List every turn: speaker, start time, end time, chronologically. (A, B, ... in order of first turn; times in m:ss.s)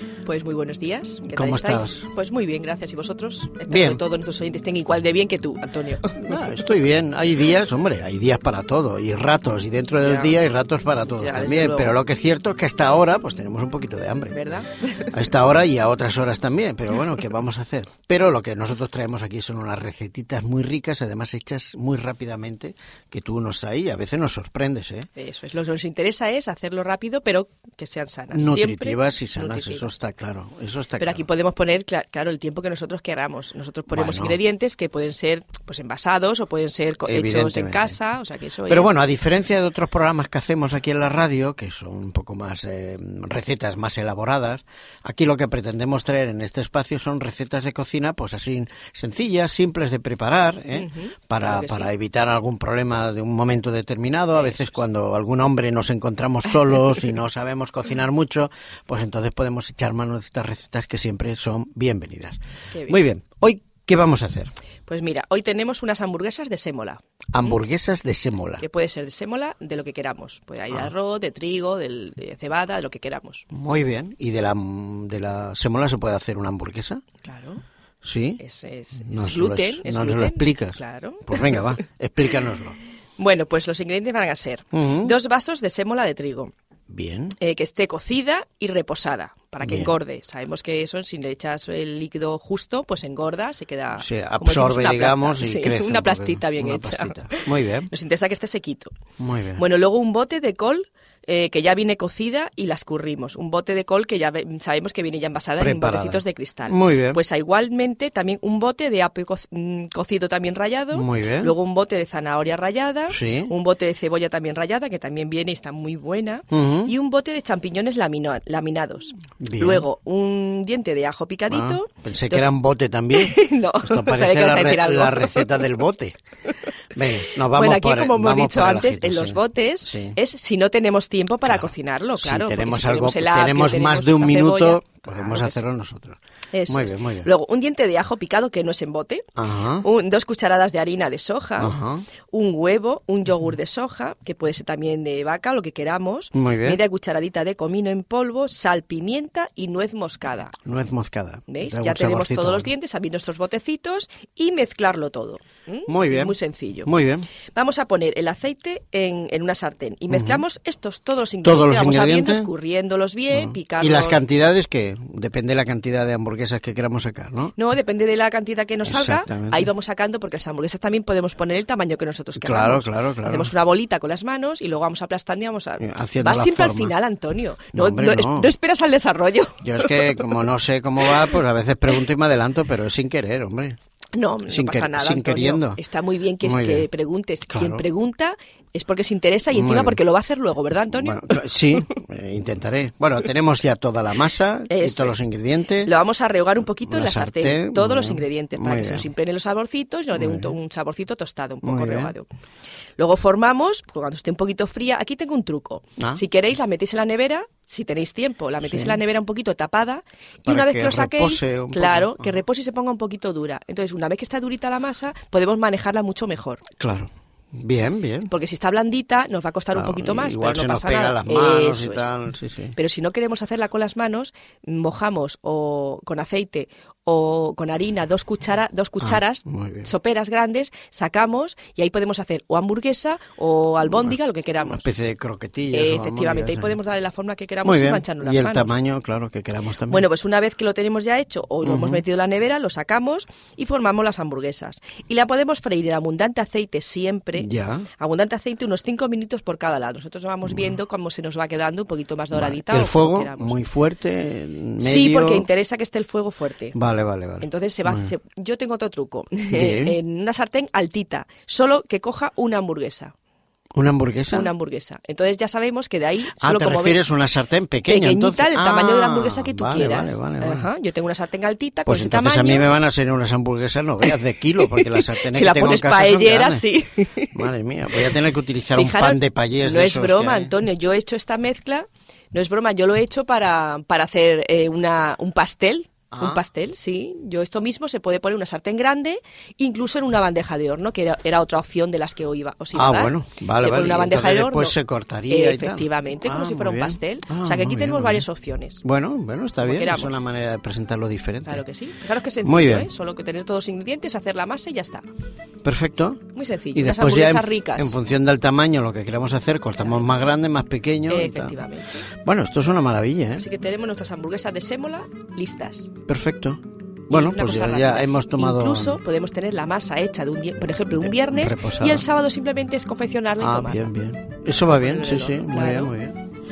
0:00.2-0:06.3 A
0:01.2-0:02.1 B
0:03.7-0:04.0 B
0:06.1-0:14.4 B
0:10.0-0:10.4 A
0:11.1-0:12.0 A
0:14.3-0:15.1 A
0:15.1-0:25.1 B
0:25.2-0:29.9 A
0:28.3-0:31.2 B
0:31.0-0:39.0 A
0:33.9-0:34.4 B
0:37.0-0:38.0 B
0:38.7-1:04.5 B
0:50.7-0:51.9 A
0:54.3-0:54.7 A
1:02.7-1:03.0 A
1:04.9-1:07.5 A
1:07.3-1:08.6 B
1:08.6-1:13.4 A
1:13.5-1:17.0 B
1:17.2-1:17.6 A
1:18.0-1:18.4 B
1:18.4-1:21.7 A
1:19.0-1:22.8 B
1:23.2-1:26.5 A
1:24.7-1:25.1 B
1:26.9-1:27.4 B
1:27.4-1:38.9 A
1:29.6-1:29.9 B
1:34.0-1:37.9 B
1:39.2-1:39.6 B
1:39.6-2:02.5 A
1:45.6-1:47.2 B
1:50.9-1:51.5 B
1:53.1-1:53.5 B
1:56.5-1:56.9 B
1:59.4-1:59.8 B
2:01.5-2:06.2 B
2:03.1-2:05.7 A
2:06.9-2:10.2 B
2:07.3-2:15.6 A
2:12.2-2:17.3 B
2:16.5-2:21.8 A
2:19.4-2:19.9 B
2:21.6-2:22.1 B
2:22.3-2:30.6 A
2:26.3-2:26.8 B
2:30.6-2:32.7 B
2:31.5-2:36.9 A
2:35.9-2:37.3 B
2:37.5-2:44.2 A
2:40.1-2:40.4 B
2:41.4-2:42.5 B
2:43.3-2:47.5 B
2:47.6-3:00.2 A
2:48.8-2:49.7 B
2:52.4-2:53.5 B
2:55.8-2:57.0 B
2:57.7-2:58.5 B
2:59.6-3:03.8 B
3:04.1-3:11.8 A
3:04.5-3:05.8 B
3:06.4-3:06.9 B
3:07.5-3:07.8 B
3:09.5-3:10.0 B
3:10.9-3:15.9 B
3:14.7-3:15.2 A
3:15.8-3:22.3 A
3:16.8-3:19.1 B
3:20.1-3:20.6 B
3:21.6-3:22.1 B
3:23.0-3:36.6 A
3:28.6-3:29.0 B
3:30.4-3:32.4 B
3:36.8-3:38.3 B
3:38.3-3:42.1 A
3:39.7-3:42.7 B
3:42.8-3:54.9 A
3:49.0-3:49.9 B
3:54.6-3:56.8 B
3:55.7-3:58.8 A
3:57.6-4:00.0 B
3:59.9-4:13.6 A
4:01.6-4:02.0 B
4:07.4-4:07.9 B
4:12.3-4:15.5 B
4:14.8-4:16.7 A
4:16.7-4:18.1 B
4:17.4-4:23.1 A
4:19.5-4:20.0 B
4:23.8-4:24.5 B
4:24.3-4:27.0 A
4:26.4-4:30.7 B
4:27.9-4:32.7 A
4:31.8-4:36.6 B
4:34.0-4:37.5 A
4:37.3-4:40.5 B
4:38.7-4:54.7 A
4:46.1-4:46.4 B
4:52.7-4:58.3 B
4:55.3-4:58.8 A
4:58.8-5:01.6 B
4:59.6-5:00.2 A
5:01.4-5:05.0 A
5:02.4-5:02.9 B
5:05.6-5:06.2 B
5:06.3-5:08.0 A
5:06.7-5:11.6 B
5:09.8-5:10.2 A
5:11.1-5:12.1 A
5:12.2-5:13.4 B
5:13.4-5:15.9 A
5:16.1-5:19.0 B
5:17.1-5:23.9 A
5:21.0-5:22.0 B
5:23.4-5:26.2 B
5:24.8-5:25.9 A